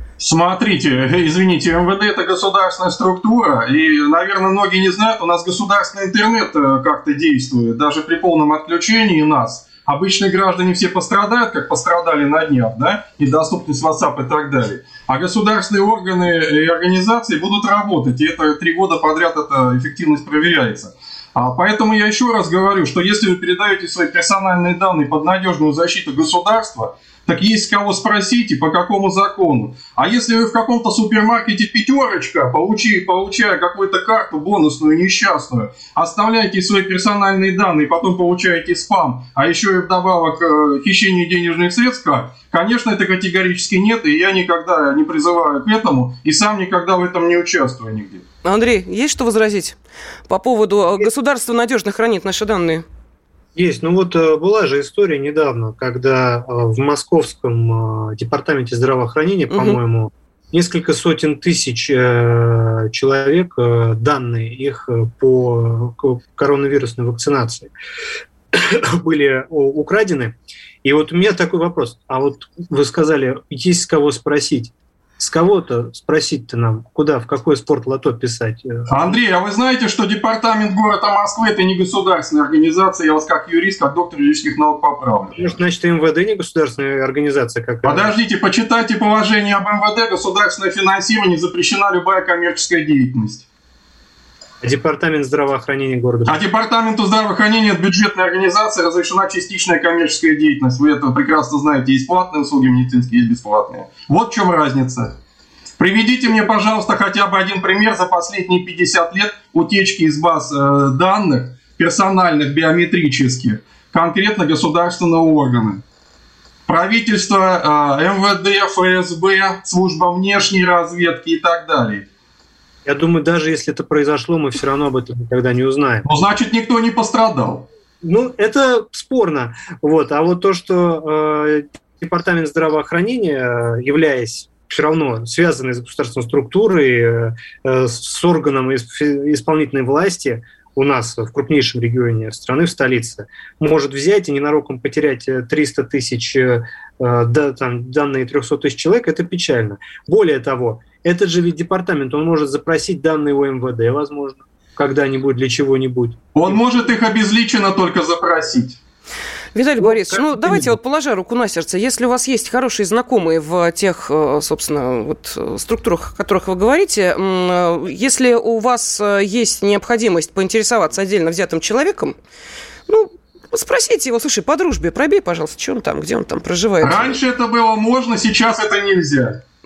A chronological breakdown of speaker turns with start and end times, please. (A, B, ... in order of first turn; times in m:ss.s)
0:00.2-0:48.2 A
0:48.4-0:49.8 B
0:50.3-0:52.8 B
0:53.5-1:07.7 C
0:59.5-0:59.8 B
1:08.5-1:19.2 C
1:18.9-1:25.4 A
1:25.4-1:28.1 C
1:27.8-1:33.5 A
1:34.6-1:36.4 C
1:36.2-1:45.1 A
1:45.8-1:55.8 A
1:56.7-2:02.0 A
2:02.8-2:06.1 C
2:06.0-2:07.7 A
2:08.0-2:36.8 C
2:36.3-2:38.8 A
2:39.5-2:52.2 B
2:39.8-2:40.8 C
2:52.9-2:57.2 B
2:56.8-2:59.4 A